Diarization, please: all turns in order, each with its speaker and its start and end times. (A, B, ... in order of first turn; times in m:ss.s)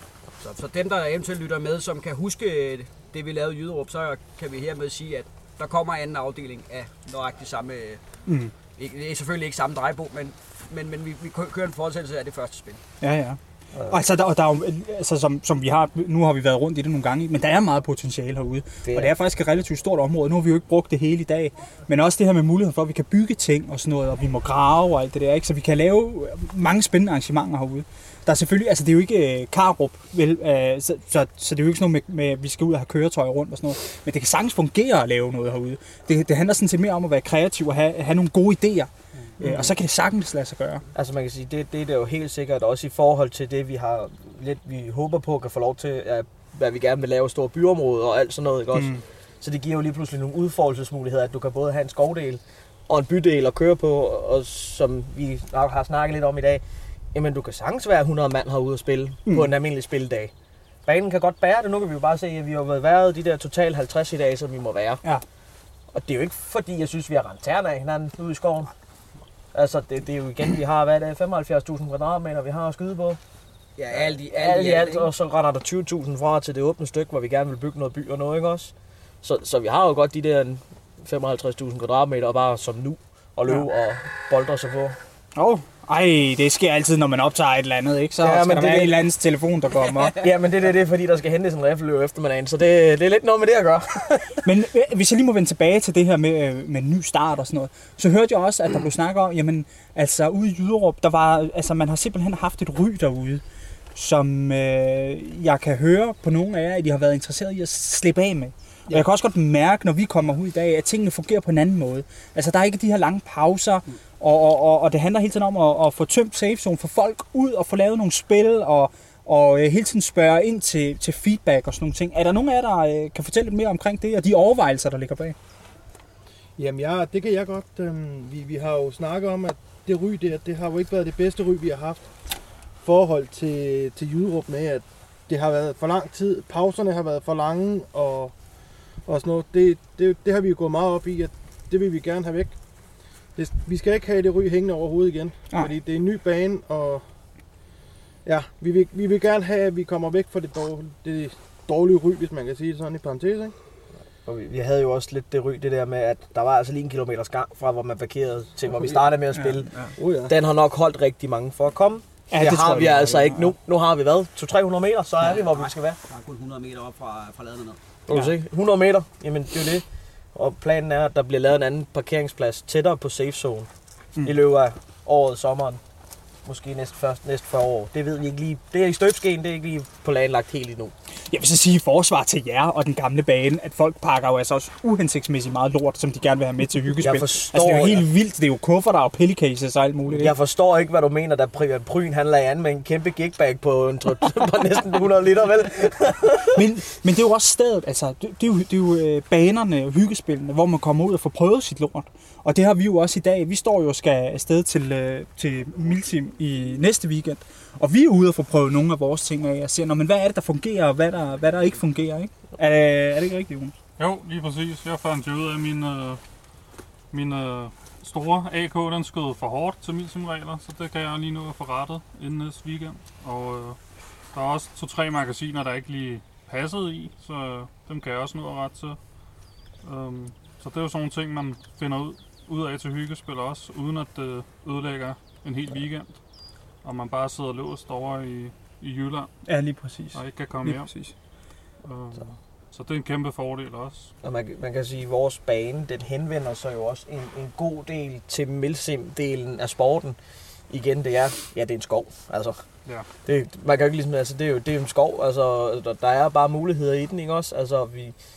0:00.4-0:08.0 A
0:08.2-0:08.5 B
0:08.8-0:12.8 A
0:13.0-0:40.8 B
0:40.9-0:56.6 C
0:48.7-0:49.0 B
0:57.1-1:00.3 C
1:00.8-1:05.0 C
1:05.9-1:08.7 C
1:09.5-1:13.2 C
1:13.8-1:15.1 A
1:13.9-1:25.0 C
1:25.3-1:30.2 B
1:28.2-1:29.0 C
1:30.2-1:34.4 C
1:34.4-1:43.4 B
1:43.9-2:05.4 B
2:06.6-2:12.0 D
2:12.8-2:18.3 D
2:19.0-2:22.5 D
2:23.4-2:27.0 D
2:28.2-2:33.5 D
2:34.2-2:46.0 C
2:39.3-2:39.6 B
2:40.0-2:40.3 D
2:42.3-2:43.5 B
2:45.2-2:47.8 A
2:48.1-2:49.8 C
2:50.3-2:53.7 C
2:54.2-2:55.8 C
2:56.4-3:00.9 C
3:01.3-3:10.4 B
3:07.0-3:08.0 C
3:10.1-3:16.6 C
3:16.5-3:33.7 B
3:34.0-3:36.2 E
3:37.1-3:43.8 E
3:44.3-3:49.0 E
3:49.8-3:56.2 E
3:56.8-3:59.3 E
3:59.4-4:01.2 B
4:00.1-4:01.0 E
4:01.8-4:04.1 E
4:04.2-4:10.2 C
4:10.7-4:12.6 C
4:13.2-4:18.1 C